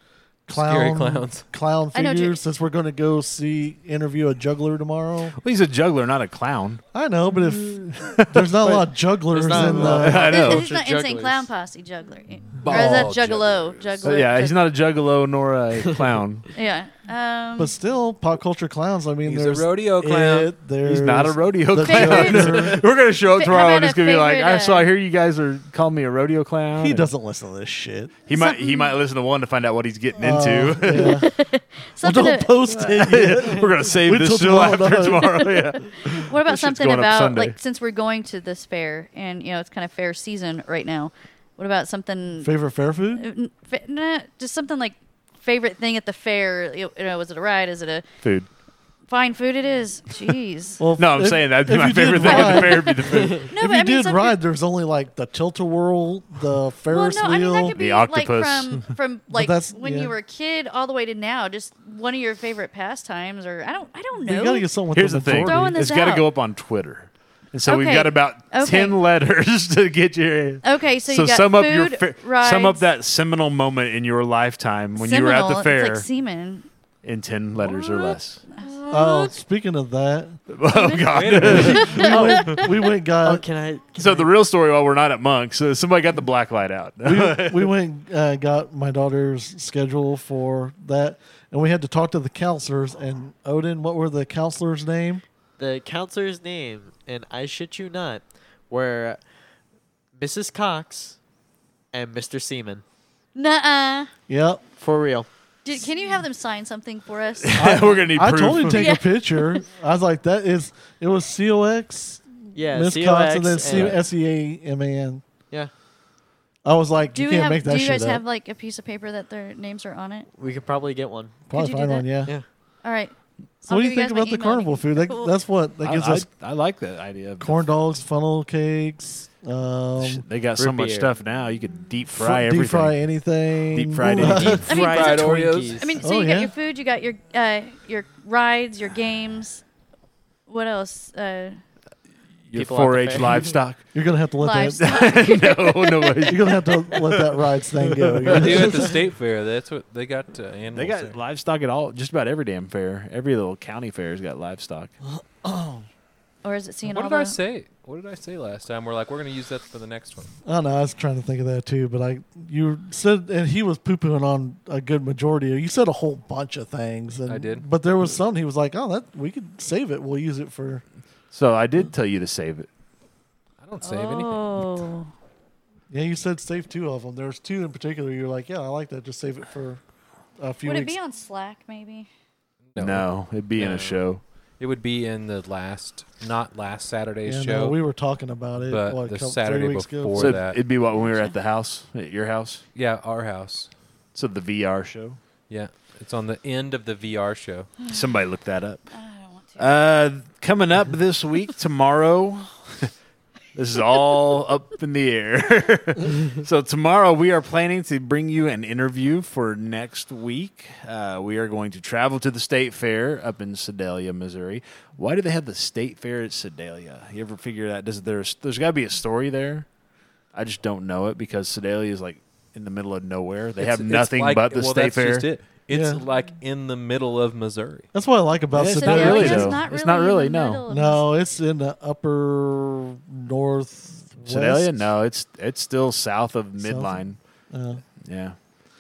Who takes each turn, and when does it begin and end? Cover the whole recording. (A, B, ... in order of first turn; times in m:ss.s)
0:00.5-0:05.4 A
0:00.5-0:01.5 B
0:01.9-0:02.4 C
0:05.4-0:06.8 D
0:06.9-0:10.2 A
0:07.5-0:08.8 D
0:09.3-0:11.5 E
0:09.7-0:10.7 D
0:10.1-0:14.6 C
0:12.6-0:14.2 B
0:12.7-0:13.1 D
0:14.0-0:16.5 D
0:16.5-0:17.7 C
0:17.6-0:22.8 A
0:19.2-0:20.5 B
0:20.8-0:27.1 D
0:21.8-0:24.9 C
0:26.8-0:28.1 A
0:28.3-0:31.2 D
0:28.3-0:29.0 C
0:30.2-0:31.3 A
0:31.0-0:32.6 C
0:32.0-0:35.4 A
0:32.7-0:37.6 D
0:35.5-0:42.5 C
0:42.4-0:43.3 A
0:43.2-0:48.1 C
0:48.2-0:48.5 D
0:49.1-0:50.8 C
0:50.8-0:57.8 A
0:51.0-0:53.5 D
0:52.2-0:54.4 C
0:56.9-1:06.3 C
0:57.7-0:58.9 D
0:59.3-1:00.2 A
1:04.2-1:05.8 A
1:04.9-1:16.1 D
1:07.7-1:09.0 C
1:10.6-1:12.8 C
1:15.0-1:16.7 C
1:17.0-1:18.4 D
1:17.6-1:19.1 C
1:18.9-1:20.4 A
1:20.5-1:22.1 D
1:20.7-1:22.7 C
1:21.1-1:22.4 B
1:21.5-1:23.4 A
1:23.1-1:24.3 E
1:24.0-1:27.8 D
1:27.0-1:35.2 A
1:35.6-1:39.2 E
1:40.2-1:41.2 E
1:41.9-1:42.8 E
1:43.4-1:44.1 C
1:44.3-1:44.6 A
1:44.8-1:45.3 E
1:45.6-1:47.8 C
1:47.4-1:48.9 D
1:47.6-1:55.2 A
1:48.8-1:49.6 C
1:52.5-1:54.0 E
1:53.7-1:54.0 D
1:56.6-1:58.2 A
1:57.1-2:00.3 C
2:00.4-2:01.5 E
2:01.5-2:02.3 A
2:01.5-2:02.2 C
2:02.8-2:05.3 C
2:03.7-2:06.3 A
2:05.8-2:07.6 D
2:07.4-2:10.2 A
2:10.0-2:13.0 D
2:10.6-2:11.1 E
2:12.1-2:14.7 A
2:13.7-2:14.7 D
2:14.1-2:16.0 E
2:14.6-2:19.6 C
2:14.7-2:16.0 B
2:16.0-2:16.5 A
2:20.5-2:21.6 C
2:22.5-2:23.8 D
2:22.5-2:23.6 E
2:23.9-2:24.9 A
2:24.4-2:26.3 C
2:24.8-2:27.2 D
2:26.3-2:28.9 A
2:28.1-2:28.7 D
2:28.3-2:31.2 B
2:30.7-2:34.9 D
2:35.0-2:35.9 A
2:36.4-2:37.4 C
2:36.8-2:40.4 B
2:40.4-2:50.8 A
2:47.3-2:47.7 B
2:51.3-2:52.7 D
2:53.6-2:54.7 B
2:53.8-2:55.1 C
2:55.9-2:59.8 A
3:00.4-3:01.0 A
3:00.6-3:02.1 C
3:02.7-3:04.0 B
3:02.8-3:04.2 D
3:04.6-3:07.8 B
3:07.2-3:10.4 A
3:08.6-3:10.6 B
3:10.2-3:12.6 D
3:10.9-3:11.3 C
3:12.8-3:13.7 B
3:14.2-3:15.2 D
3:15.5-3:17.7 B
3:17.9-3:18.9 D
3:18.9-3:19.7 C
3:19.6-3:22.9 D
3:23.6-3:39.7 D
3:40.3-3:45.3 D
3:43.6-3:47.9 B
3:45.7-3:46.0 A
3:47.9-3:49.6 A
3:48.5-3:50.6 D
3:48.8-3:51.1 C
3:50.7-3:54.9 A
3:54.2-3:57.2 D
3:56.6-3:57.8 A
3:58.0-3:58.4 D